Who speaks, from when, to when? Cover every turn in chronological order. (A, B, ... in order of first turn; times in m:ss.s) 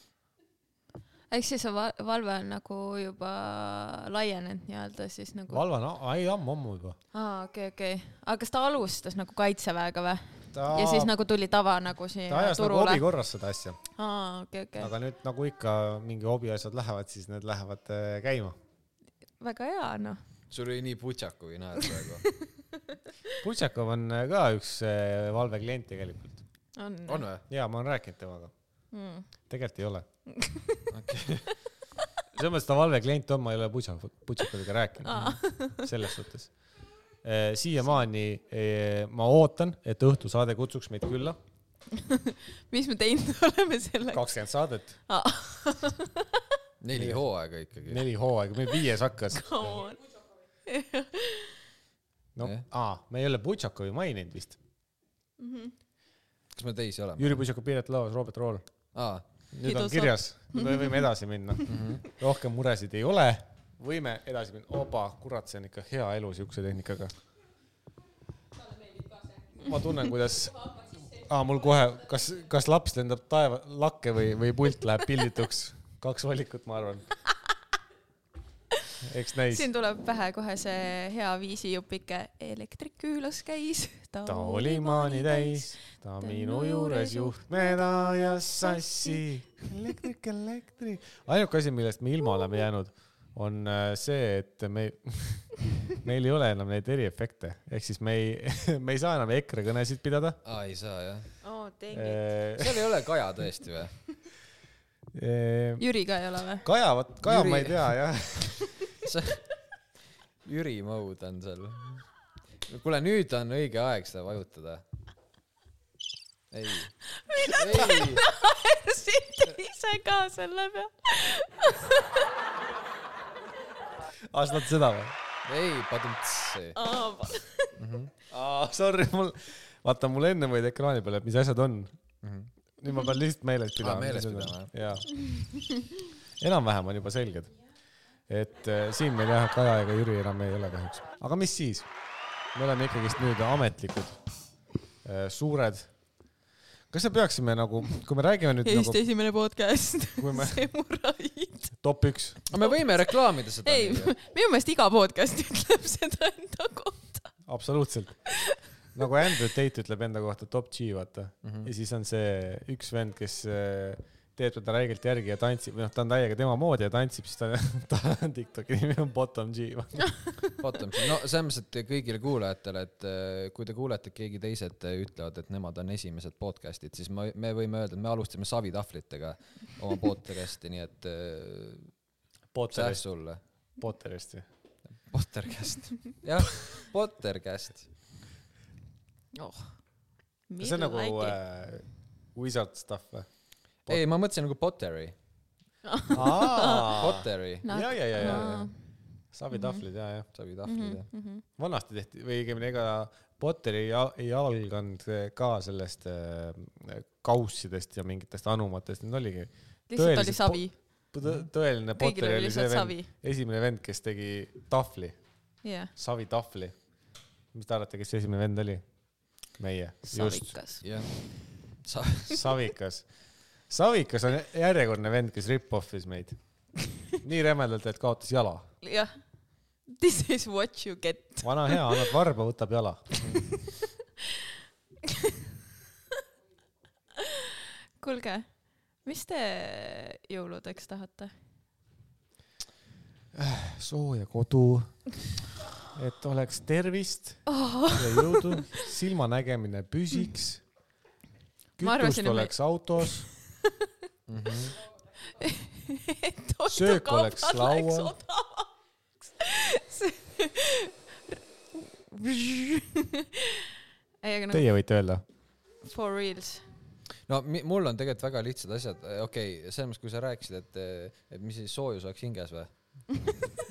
0:01.3-0:05.6 A
0:05.5-0:07.0 B
0:07.1-0:13.0 A
0:10.5-0:11.1 B
0:12.3-0:13.8 B
0:14.0-0:14.9 A
0:14.8-0:18.6 B
0:19.4-0:20.2 A
0:20.5-0:22.2 C
0:23.4-0:26.4 B
0:26.8-0:27.2 A
0:27.1-0:27.4 C
0:27.5-0:28.5 B
0:28.9-0:29.3 A
0:29.5-0:30.0 B
0:30.4-0:30.8 A
0:30.9-0:31.5 C
0:32.3-0:36.5 B
0:35.0-0:35.9 A
0:37.2-0:41.4 B
0:41.9-0:44.3 A
0:44.1-0:44.9 B
0:45.1-0:46.4 A
0:46.8-0:48.0 C
0:46.9-0:47.2 B
0:47.9-0:49.7 B
0:49.3-0:50.1 A
0:50.6-0:51.6 A
0:52.4-0:54.6 B
0:55.4-0:55.7 A
0:56.5-0:57.4 C
0:57.2-0:58.6 B
0:58.9-0:59.2 C
0:59.5-1:07.1 B
0:59.6-1:01.1 A
1:01.7-1:02.0 C
1:09.6-1:17.1 B
1:19.0-1:19.7 B
1:19.5-1:29.2 A
1:24.2-1:40.4 B
1:40.4-1:41.3 C
1:41.4-1:42.2 A
1:41.9-1:42.8 B
1:42.6-1:43.9 C
1:45.1-1:45.8 B
1:45.8-1:46.6 A
1:46.6-1:48.7 B
1:47.2-1:47.9 C
1:49.0-1:49.4 C
1:50.4-1:52.0 C
1:52.7-1:54.8 C
1:56.5-1:58.2 C
1:57.3-2:02.3 A
2:04.2-2:05.1 B
2:05.4-2:06.8 C
2:06.8-2:07.7 A
2:07.8-2:08.1 C
2:08.3-2:11.9 B
2:12.2-2:12.5 C
2:12.8-2:15.1 B
2:13.8-2:14.7 C
2:16.4-2:17.5 B
2:18.3-2:21.9 B
2:22.5-2:24.2 B
2:25.0-2:25.9 B
2:26.9-2:29.0 B
2:28.6-2:31.8 A
2:30.2-2:30.6 B
2:31.8-2:32.4 B
2:32.5-2:34.1 C
2:33.6-2:37.3 A
2:37.5-2:38.3 B
2:38.3-2:38.6 A
2:38.9-2:50.3 B
2:41.4-2:41.7 C
2:50.6-3:01.9 C
3:02.5-3:03.0 B
3:02.7-3:03.4 C
3:03.8-3:04.4 B
3:05.1-3:07.9 C
3:09.3-3:09.8 A
3:10.5-3:11.4 A
3:10.6-3:13.3 B
3:13.9-3:15.1 C
3:15.8-3:17.0 A
3:16.1-3:18.7 B
3:16.9-3:18.6 C
3:17.6-3:18.7 A
3:19.3-3:20.3 B
3:19.5-3:19.8 A
3:20.3-3:21.0 C
3:20.6-3:21.4 A
3:21.6-3:35.2 B
3:29.9-3:30.7 A
3:32.0-3:33.1 A
3:35.6-3:35.9 A
3:35.9-3:36.7 B
3:37.5-3:38.8 B
3:39.4-3:40.6 B
3:40.1-3:41.2 A
3:40.8-3:42.4 C
3:42.3-3:43.1 B
3:43.7-3:46.4 B
3:47.2-3:48.7 B
3:48.8-3:49.2 A
3:49.9-3:52.1 A
3:51.4-3:53.1 B
3:53.2-3:53.7 A
3:55.1-3:55.3 A
3:57.2-4:01.3 A
4:03.3-4:10.6 B
4:07.5-4:08.7 A
4:11.8-4:13.3 B
4:11.8-4:13.7 A
4:14.3-4:14.8 C
4:15.4-4:18.7 A
4:16.7-4:18.2 B
4:19.4-4:23.7 A
4:24.2-4:24.6 A
4:24.5-4:25.2 B
4:25.8-4:26.7 A
4:27.3-4:32.7 C